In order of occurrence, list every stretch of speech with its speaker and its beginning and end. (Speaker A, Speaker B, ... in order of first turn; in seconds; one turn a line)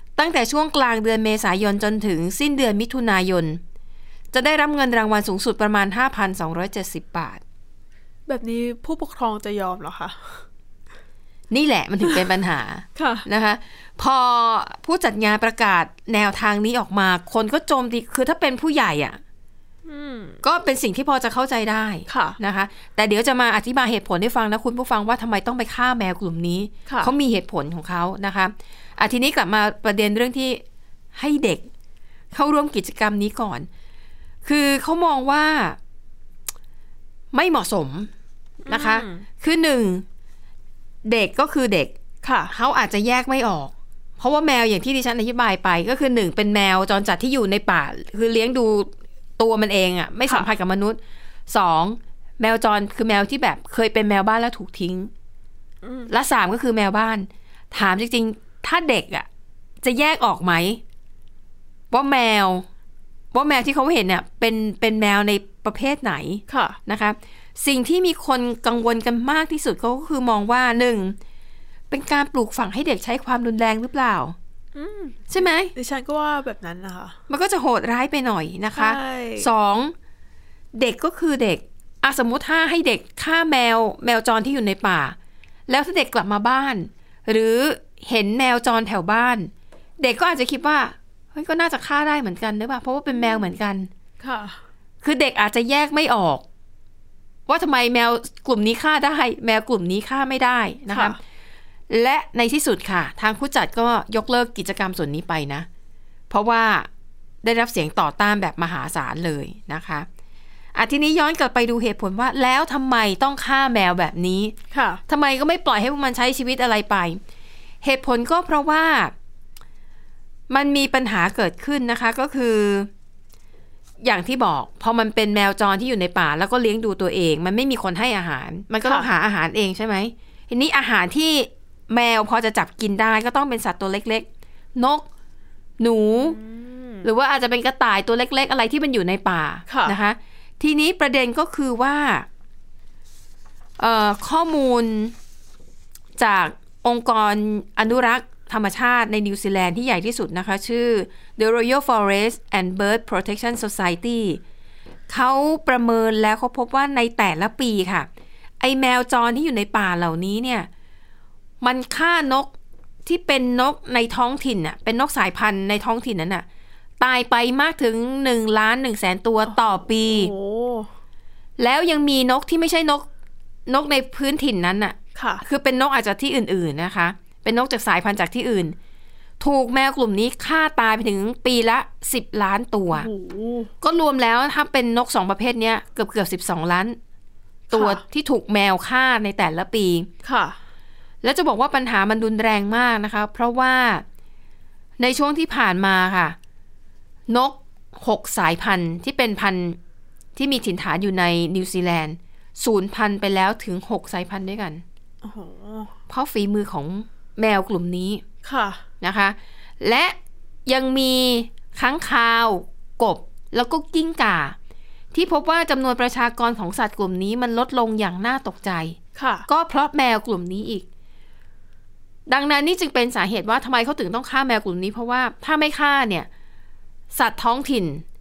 Speaker A: 0.2-3.6
Speaker A: 4.3-7.4
Speaker B: 8.3-10.4
Speaker A: 11.5-19.2
Speaker B: 12.9-13.2
Speaker B: 19.9-20.4
Speaker A: 20.4-30.6
Speaker B: 22.1-22.4
Speaker B: 26.9-27.1
Speaker A: 31.1-31.7
Speaker A: 32.3-33.7
Speaker A: 34.4-35.8
Speaker A: 37.3-38.1
Speaker B: 38.6-39.2
Speaker A: 38.7-40.0
Speaker A: 41.0-41.9
Speaker B: 42.2-42.5
Speaker A: 42.5-55.1
Speaker B: 55.8-56.1
Speaker A: 56.1-59.3
Speaker A: 59.8-60.8
Speaker A: 61.9-62.6
Speaker A: 63.3-71.2
Speaker B: 66.5-66.8
Speaker A: 71.9-74.3
Speaker B: 74.7-77.2
Speaker A: 75.3-75.7
Speaker A: 77.3-79.9
Speaker B: 78.8-79.5
Speaker A: 80.7-85.2
Speaker A: 85.7-93.9
Speaker B: 94.2-94.6
Speaker A: 95.0-96.4
Speaker A: 97.5-101.2
Speaker B: 100.9-101.2
Speaker A: 101.9-105.7
Speaker A: 106.3-106.9
Speaker A: 107.4-110.1
Speaker A: 110.7-114.5
Speaker B: 114.7-115.0
Speaker A: 115.1-117.2
Speaker A: 117.8-119.1
Speaker A: 120.5-122.9
Speaker A: 124.0-135.1
Speaker A: 135.8-136.4
Speaker B: 136.3-137.1
Speaker A: 137.0-142.3
Speaker B: 139.7-140.0
Speaker A: 143.8-145.1
Speaker A: 146.2-154.4
Speaker A: 155.1-158.1
Speaker A: 158.6-160.7
Speaker A: 161.6-162.5
Speaker A: 163.0-166.4
Speaker A: 167.0-170.3
Speaker B: 169.5-170.9
Speaker A: 171.6-173.1
Speaker A: 173.7-178.8
Speaker B: 175.1-175.4
Speaker A: 179.4-183.1
Speaker B: 182.9-183.7
Speaker A: 183.8-187.0
Speaker B: 187.7-188.0
Speaker A: 187.7-190.1
Speaker B: 190.2-190.6
Speaker A: 191.2-194.0
Speaker A: 195.0-196.3
Speaker A: 197.3-199.8
Speaker A: 200.3-204.8
Speaker B: 205.2-205.9
Speaker A: 206.1-208.2
Speaker B: 208.4-208.8
Speaker A: 209.0-214.6
Speaker A: 215.1-220.8
Speaker B: 219.1-219.5
Speaker A: 222.3-226.3
Speaker A: 227.1-228.0